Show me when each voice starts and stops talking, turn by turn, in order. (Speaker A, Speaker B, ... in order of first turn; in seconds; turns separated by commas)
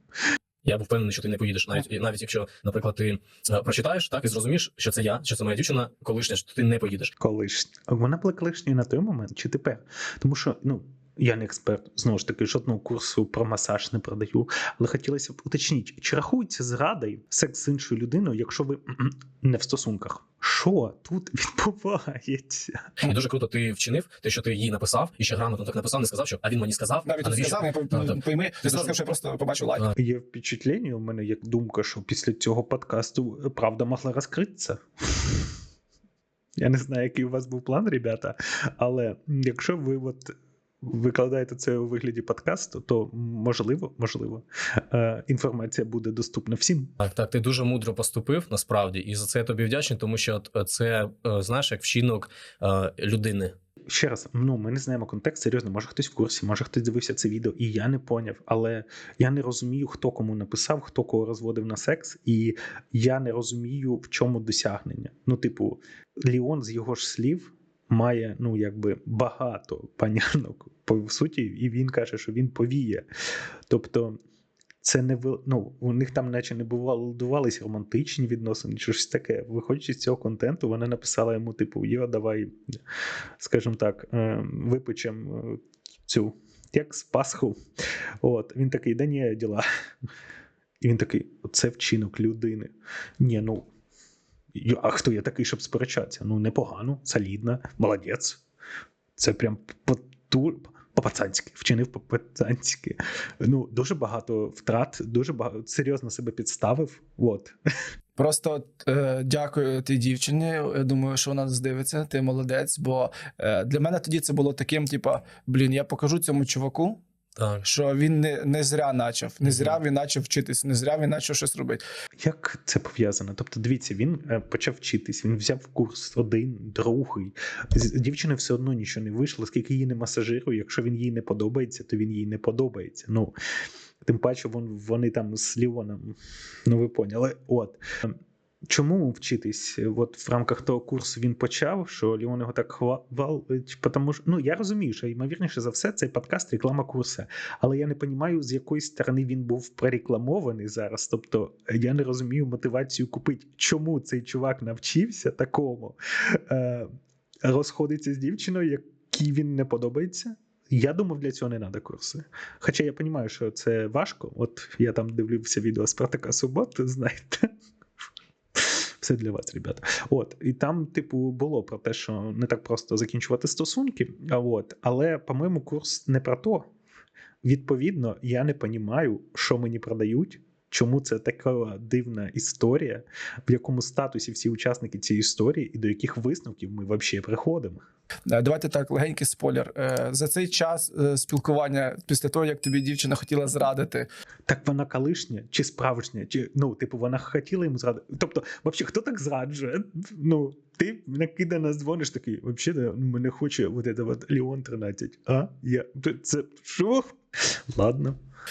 Speaker A: 0.6-7.1, Speaker B: 7.2-22.9, Speaker A: 23.0-28.9, Speaker C: 27.0-29.9, Speaker B: 29.9-35.5, Speaker B: 36.6-47.0, Speaker A: 47.0-53.5, Speaker B: 53.9-73.0, Speaker B: 73.7-74.2, Speaker B: 74.8-82.5, Speaker B: 83.4-87.5, Speaker B: 88.2-89.7, Speaker B: 90.8-93.7, Speaker B: 94.5-98.4, Speaker B: 99.2-107.5, Speaker C: 108.2-117.0, Speaker A: 117.3-117.6, Speaker C: 117.6-121.8, Speaker A: 119.4-119.8, Speaker B: 122.2-133.3, Speaker B: 134.0-138.1, Speaker B: 138.7-156.9, Speaker B: 157.4-167.5, Speaker B: 168.5-176.7, Speaker B: 177.4-187.8, Speaker C: 188.3-194.1, Speaker B: 194.5-207.2, Speaker B: 207.7-208.2